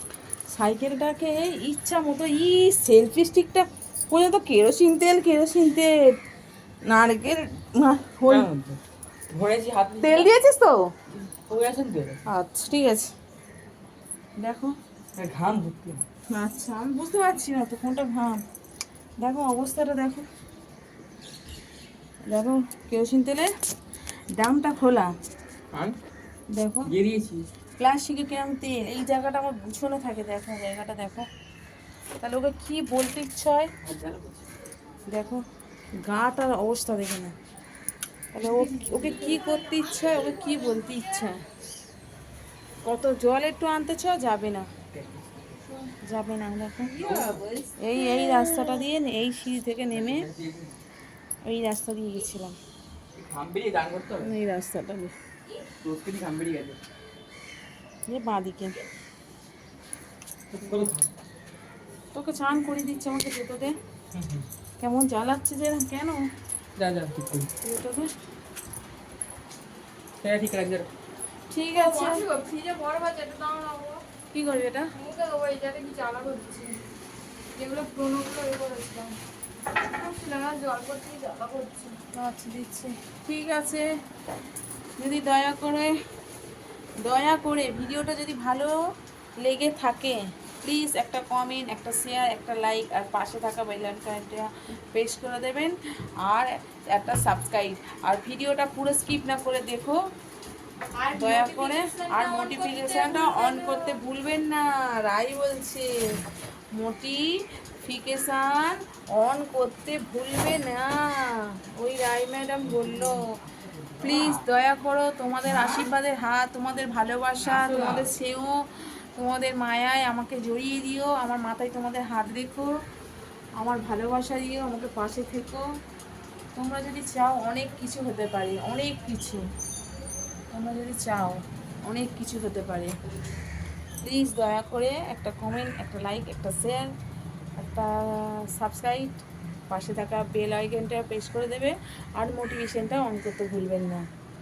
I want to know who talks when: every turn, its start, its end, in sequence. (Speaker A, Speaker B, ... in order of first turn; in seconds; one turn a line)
Speaker A: 0.5-5.9
Speaker A: 6.9-8.5
Speaker B: 8.3-10.3
Speaker A: 10.0-10.8
Speaker B: 11.5-12.2
Speaker A: 12.3-13.1
Speaker A: 14.4-14.7
Speaker B: 15.2-16.0
Speaker A: 16.3-18.4
Speaker A: 19.2-20.3
Speaker A: 22.3-23.5
Speaker A: 24.4-25.1
Speaker A: 26.5-26.9
Speaker B: 26.9-27.5
Speaker A: 27.8-31.3
Speaker A: 32.2-33.7
Speaker B: 33.8-34.5
Speaker A: 35.1-35.4
Speaker A: 36.0-37.3
Speaker A: 38.3-41.4
Speaker C: 38.4-41.2
Speaker A: 42.8-44.7
Speaker B: 44.9-45.6
Speaker A: 46.0-47.0
Speaker B: 46.9-47.5
Speaker C: 47.0-48.8
Speaker A: 47.8-50.3
Speaker B: 49.9-50.8
Speaker A: 51.5-52.6
Speaker B: 53.1-54.3
Speaker A: 54.2-55.1
Speaker B: 55.8-56.8
Speaker A: 58.1-58.8
Speaker B: 60.5-61.1
Speaker A: 62.1-63.8
Speaker B: 64.1-64.5
Speaker A: 64.8-66.2
Speaker B: 66.8-67.5
Speaker A: 67.6-68.1
Speaker B: 70.2-70.9
Speaker A: 71.5-72.2
Speaker C: 71.8-74.0
Speaker A: 74.3-74.9
Speaker C: 74.9-76.8
Speaker C: 77.6-79.2
Speaker C: 79.9-82.1
Speaker A: 82.1-83.9
Speaker A: 85.0-85.9
Speaker A: 87.0-88.8
Speaker A: 89.4-100.0
Speaker C: 101.0-104.0
Speaker A: 101.1-106.2
Speaker A: 106.8-107.2
Speaker A: 107.8-113.3
Speaker B: 112.6-114.5
Speaker A: 114.0-122.7
Speaker B: 117.4-118.1
Speaker A: 123.6-125.7
Speaker A: 126.5-129.4
Speaker A: 130.5-132.9
Speaker A: 134.0-136.9
Speaker A: 137.6-139.2
Speaker A: 139.7-144.0